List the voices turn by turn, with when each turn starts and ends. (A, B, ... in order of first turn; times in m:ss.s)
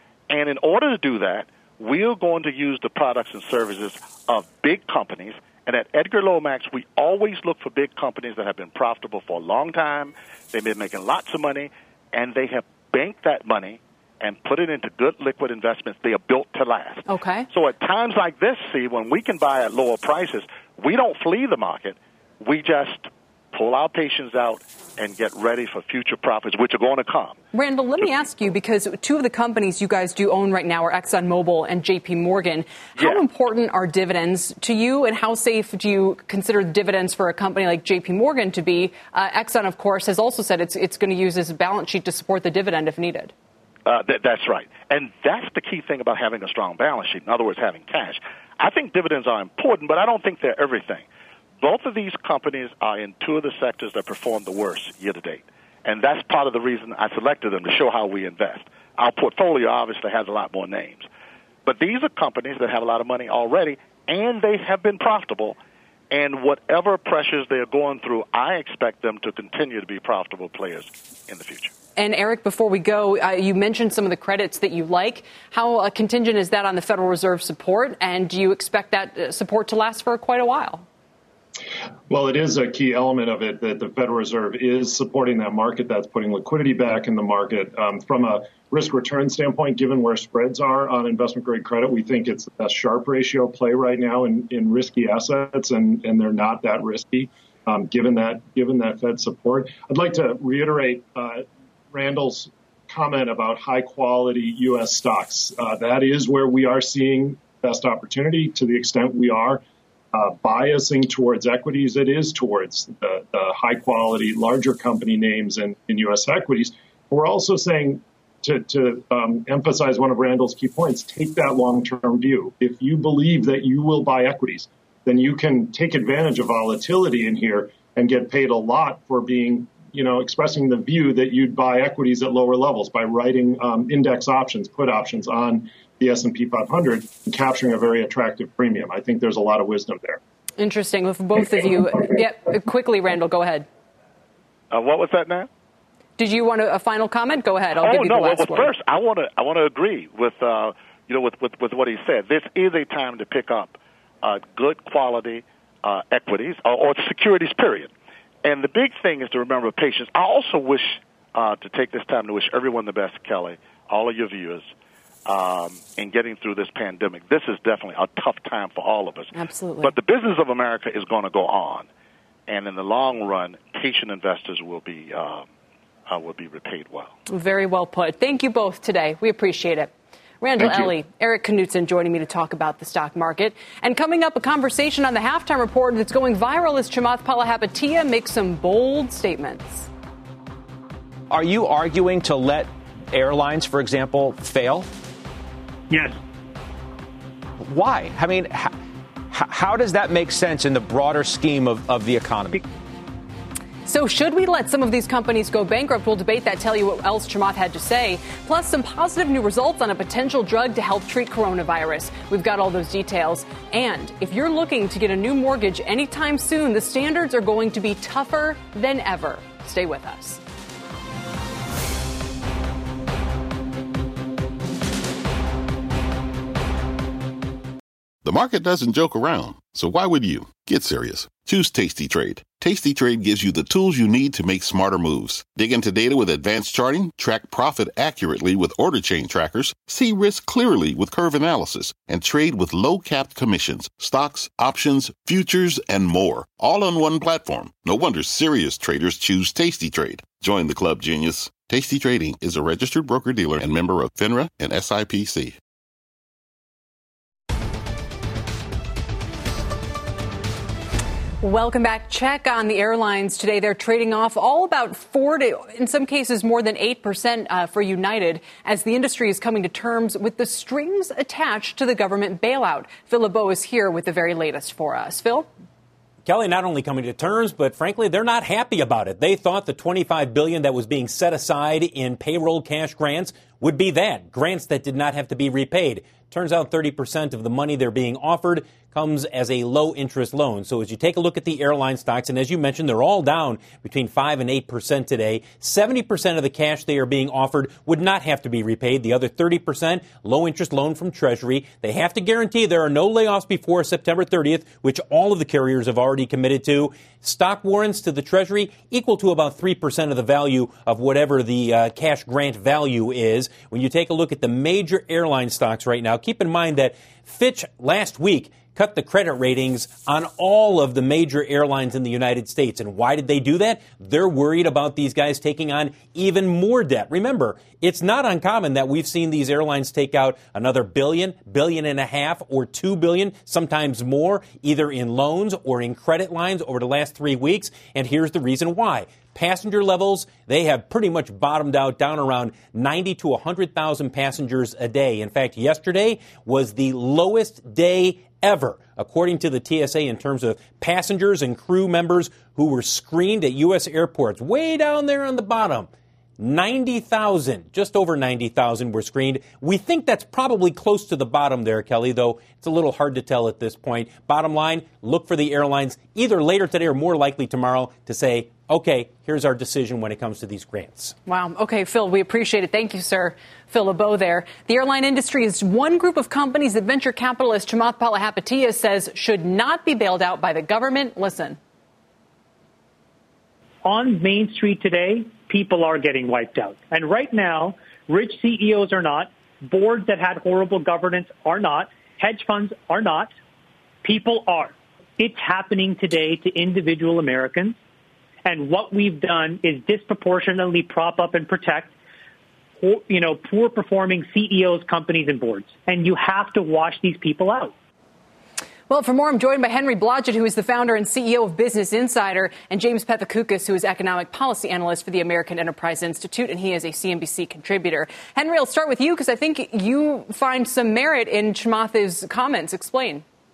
0:00.3-0:27.4 A
0:17.1-0:17.5 B
0:27.5-0:43.3 B
0:33.0-0:33.2 A
0:43.9-0:51.1 A
0:51.6-1:01.1 A
1:01.7-1:05.6 A
1:06.1-1:11.7 A
1:12.0-1:20.9 B
1:22.1-1:49.6 C
1:50.1-2:20.2 C
2:20.6-2:23.7 B
2:24.7-2:25.5 A
2:26.2-2:28.7 B
2:27.8-2:37.9 A
2:38.4-2:44.7 A
2:45.3-2:49.3 A
2:49.4-2:49.8 B
2:49.8-2:51.9 A
2:52.5-2:55.5 A
2:56.1-2:57.1 A
2:57.3-3:09.9 B
3:00.6-3:00.9 A
3:11.3-3:14.9 D
3:15.9-3:16.2 E
3:17.6-3:18.7 D
3:19.3-3:22.6 D
3:23.9-3:40.4 B
3:48.2-4:15.6 F
4:21.4-4:35.5 B
4:36.2-6:11.1 G
6:11.3-6:21.6 B
6:23.8-6:33.3 E
6:34.0-6:37.8 E
6:38.4-6:41.9 E
6:42.8-6:47.7 E
6:48.9-7:03.2 B